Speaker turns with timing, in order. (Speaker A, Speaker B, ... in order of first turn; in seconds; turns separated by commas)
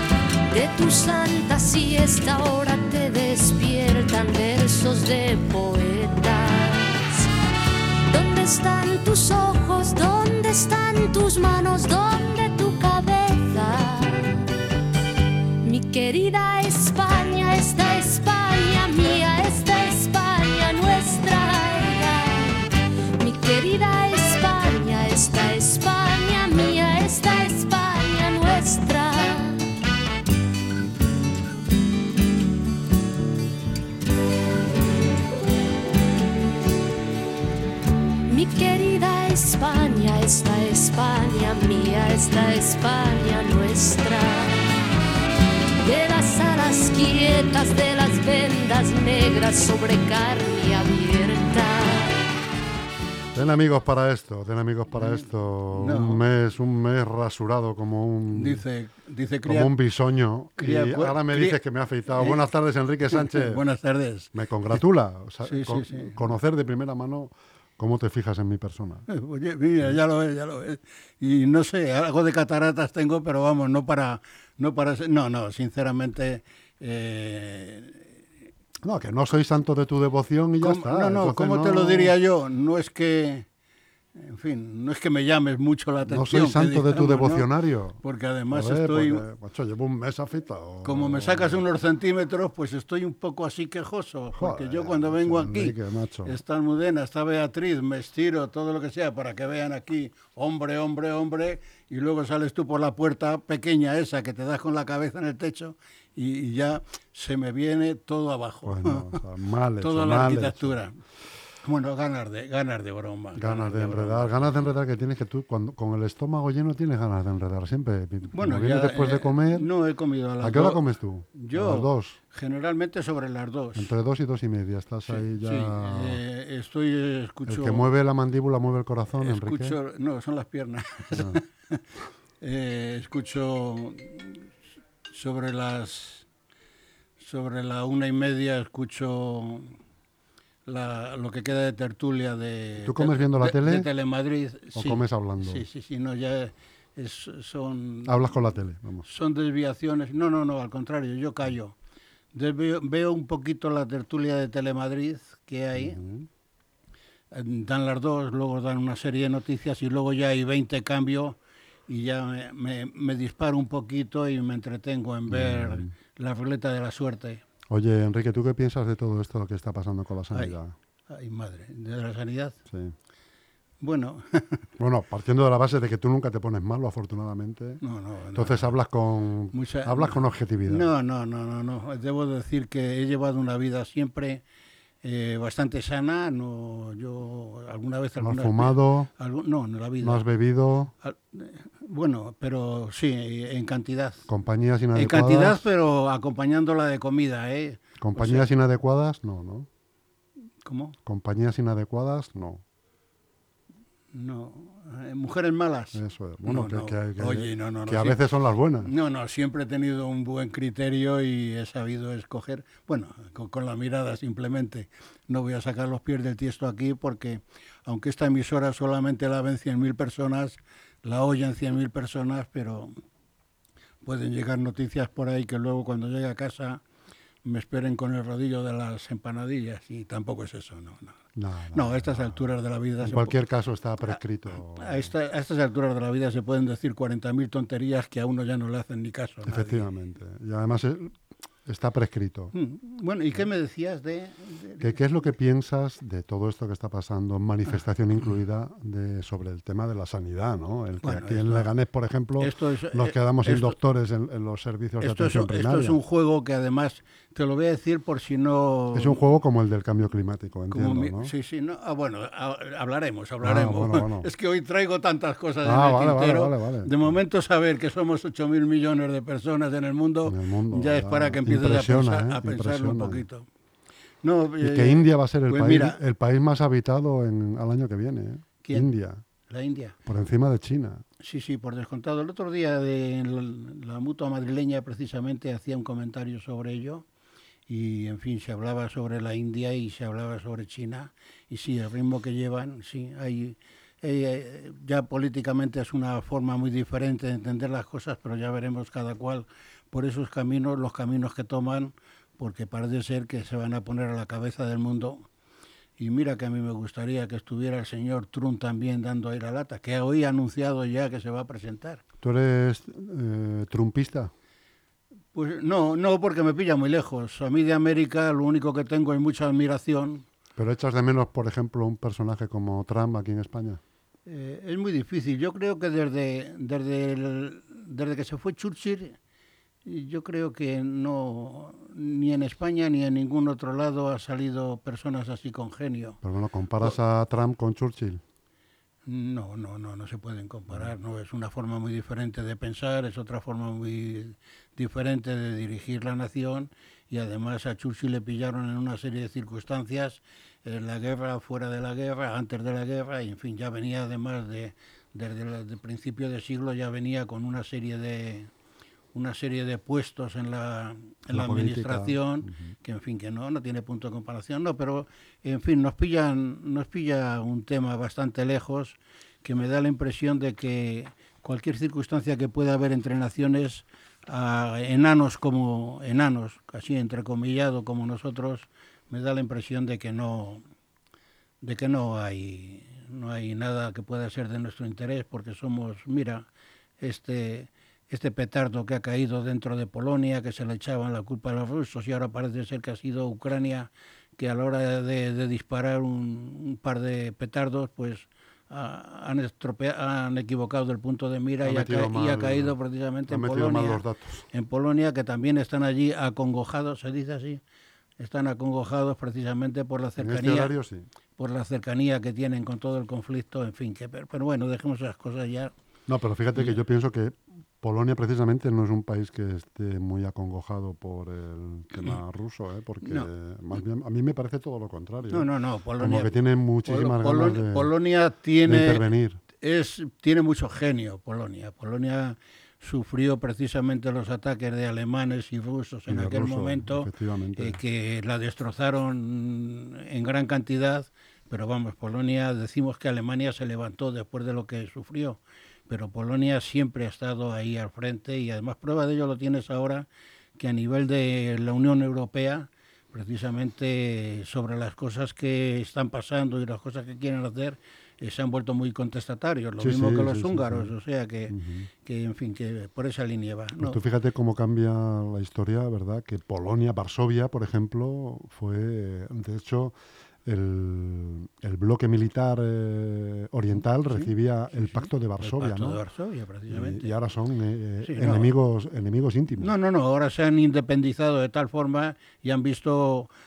Speaker A: 0.5-7.3, Speaker A: 8.1-14.4, Speaker A: 15.6-29.6, Speaker A: 38.3-44.6, Speaker A: 45.8-52.2, Speaker B: 53.3-58.6, Speaker C: 55.0-56.2, Speaker C: 58.3-59.7, Speaker B: 59.5-63.6, Speaker C: 60.6-61.6, Speaker C: 62.1-62.4, Speaker C: 63.1-64.8, Speaker B: 64.3-69.1, Speaker C: 65.4-66.2, Speaker C: 69.1-78.1, Speaker B: 78.8-82.1, Speaker C: 80.6-83.5, Speaker C: 84.2-87.5, Speaker B: 86.0-88.0, Speaker C: 88.0-89.2, Speaker B: 88.5-91.6, Speaker C: 90.8-109.2, Speaker B: 94.3-96.4, Speaker B: 108.6-110.8, Speaker C: 109.8-111.0, Speaker C: 111.6-114.3, Speaker B: 113.3-119.7, Speaker C: 118.3-123.9, Speaker B: 120.4-122.2, Speaker B: 123.8-126.2, Speaker C: 125.0-127.9, Speaker B: 127.5-129.8, Speaker C: 129.2-131.8, Speaker B: 131.1-131.4, Speaker C: 132.4-134.5, Speaker C: 135.1-136.3, Speaker C: 137.2-139.7, Speaker C: 140.7-148.3, Speaker B: 142.8-143.9, Speaker B: 144.7-145.6, Speaker B: 148.0-149.1, Speaker C: 149.0-151.7, Speaker C: 152.3-156.0, Speaker B: 155.7-156.3, Speaker C: 157.3-167.4, Speaker B: 165.3-165.9, Speaker B: 167.7-170.7, Speaker C: 171.1-172.6, Speaker B: 172.7-172.9, Speaker C: 173.8-174.7, Speaker B: 174.8-177.8, Speaker C: 177.8-178.7, Speaker B: 178.3-180.9, Speaker C: 179.5-184.4, Speaker C: 185.0-190.2, Speaker B: 188.2-189.1, Speaker B: 190.0-190.9, Speaker C: 191.0-194.3, Speaker B: 194.3-195.7, Speaker C: 194.9-198.5, Speaker B: 198.0-199.7, Speaker C: 200.6-200.9, Speaker B: 201.1-202.6, Speaker C: 204.1-208.2, Speaker B: 205.9-208.9, Speaker C: 208.8-222.9, Speaker C: 224.0-226.8, Speaker C: 227.4-231.2, Speaker B: 231.3-232.4, Speaker C: 231.7-233.3, Speaker B: 233.0-235.1, Speaker C: 234.1-239.9, Speaker B: 239.4-242.5, Speaker C: 242.5-245.3, Speaker B: 244.8-256.0, Speaker C: 251.0-251.7, Speaker C: 252.4-253.8, Speaker C: 255.0-259.2, Speaker B: 258.9-261.3, Speaker C: 260.7-273.5, Speaker B: 263.4-264.3, Speaker B: 265.6-266.9, Speaker B: 270.2-273.2, Speaker C: 274.2-276.0, Speaker B: 274.6-279.2, Speaker C: 278.6-278.9, Speaker C: 279.5-279.9, Speaker B: 280.1-281.0, Speaker C: 281.2-287.0, Speaker C: 287.7-305.3, Speaker C: 306.0-312.0, Speaker B: 312.2-314.3, Speaker C: 315.3-320.2, Speaker B: 320.6-323.8, Speaker C: 324.2-329.2, Speaker C: 329.8-336.2, Speaker B: 336.2-338.2, Speaker C: 339.1-358.5, Speaker C: 359.1-380.6, Speaker B: 361.3-362.7, Speaker C: 381.6-386.5, Speaker C: 387.0-407.6, Speaker B: 401.6-402.8, Speaker B: 403.3-404.4, Speaker C: 408.2-410.7, Speaker B: 410.2-411.1, Speaker C: 411.4-415.7, Speaker B: 416.1-427.9, Speaker C: 423.0-423.3, Speaker C: 425.3-426.3, Speaker C: 426.8-429.0, Speaker B: 428.6-429.4, Speaker C: 429.6-464.0, Speaker B: 436.1-437.8, Speaker B: 459.8-460.9, Speaker B: 461.5-461.9, Speaker B: 463.8-476.0, Speaker C: 474.0-477.1, Speaker B: 476.7-479.7, Speaker C: 478.0-478.5, Speaker C: 479.6-483.3